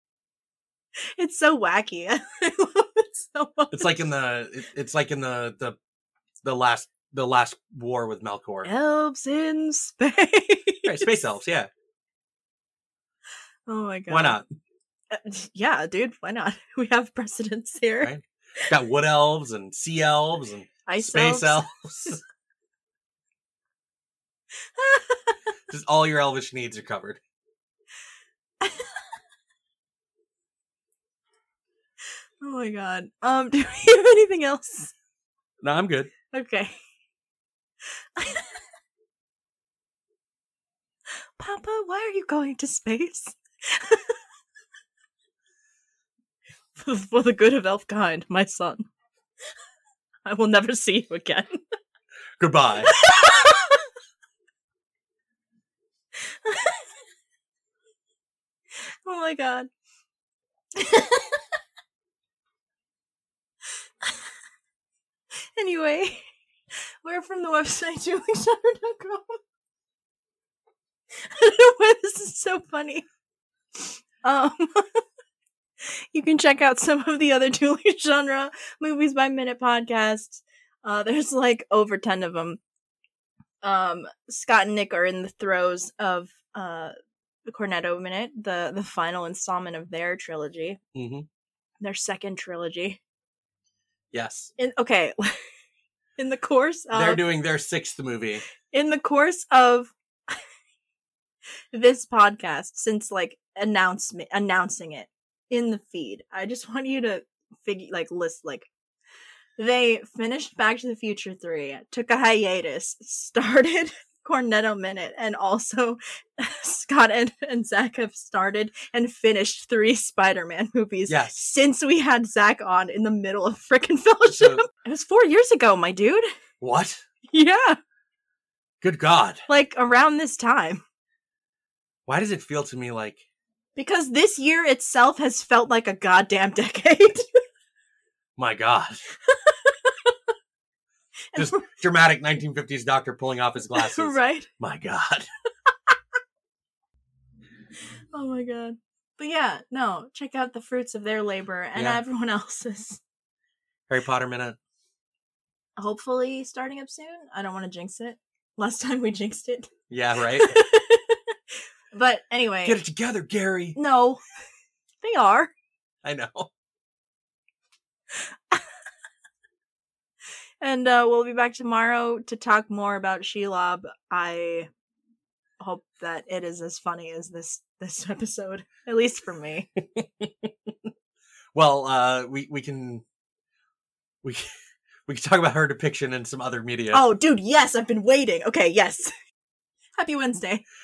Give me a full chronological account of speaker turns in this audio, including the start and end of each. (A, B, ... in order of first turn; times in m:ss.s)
0:01.0-0:04.1 A
0:03.7-0:05.8 B
0:06.4-0:08.7 B
0:08.6-0:11.2 A
0:10.8-0:11.7 B
0:13.7-0:14.4 A
0:14.1-0:14.4 B
0:15.1-0:18.1 A
0:18.0-0:22.2 B
0:20.8-0:22.2 A
0:24.7-0:25.4 A
0:25.7-0:27.2 B
0:28.6-0:29.0 A
0:32.4-0:34.9 A
0:35.6-0:36.1 B
0:36.3-0:36.8 A
0:38.2-0:38.6 A
0:41.4-0:44.2 A
0:46.8-0:48.8 A
0:50.2-0:51.5 A
0:52.4-0:52.9 B
0:52.8-0:53.9 A
0:56.2-0:56.9 A
0:58.8-0:59.7 A
1:00.7-1:01.4 A
1:05.6-1:06.3 A
1:07.0-1:09.4 A
1:11.2-1:13.0 A
1:13.8-1:15.0 A
1:15.8-1:22.6 A
1:23.6-1:26.9 A
1:27.5-1:30.8 A
1:30.9-1:31.3 B
1:31.8-1:33.0 A
1:34.1-1:34.5 B
1:34.6-1:35.5 A
1:36.2-1:37.2 A
1:36.9-1:38.4 B
1:38.7-1:40.4 A
1:41.7-1:48.7 A
1:49.6-2:06.3 A
2:01.1-2:01.4 B
2:04.3-2:04.6 B
2:06.6-2:07.0 B
2:07.3-2:07.8 A
2:08.8-2:09.4 B
2:09.5-2:10.8 A
2:12.0-2:13.2 B
2:13.8-2:17.3 A
2:18.4-2:19.0 B
2:19.3-2:20.1 A
2:21.3-2:21.7 A
2:21.3-2:25.3 B
2:23.7-2:24.5 A
2:28.1-2:33.0 A
2:31.7-2:32.0 B
2:33.9-2:34.6 B
2:35.8-2:39.7 A
2:39.9-2:40.6 B
2:40.3-2:41.4 A
2:41.9-2:42.8 A
2:42.6-2:43.8 B
2:43.8-2:44.2 A
2:45.0-2:45.5 A
2:46.0-2:46.5 B
2:48.1-2:48.6 A
2:50.6-2:54.7 A
2:55.6-2:59.7 A
2:59.8-3:00.9 B
3:01.5-3:03.0 B
3:04.2-3:04.5 B
3:05.0-3:07.0 B
3:06.9-3:09.1 A
3:10.0-3:10.6 A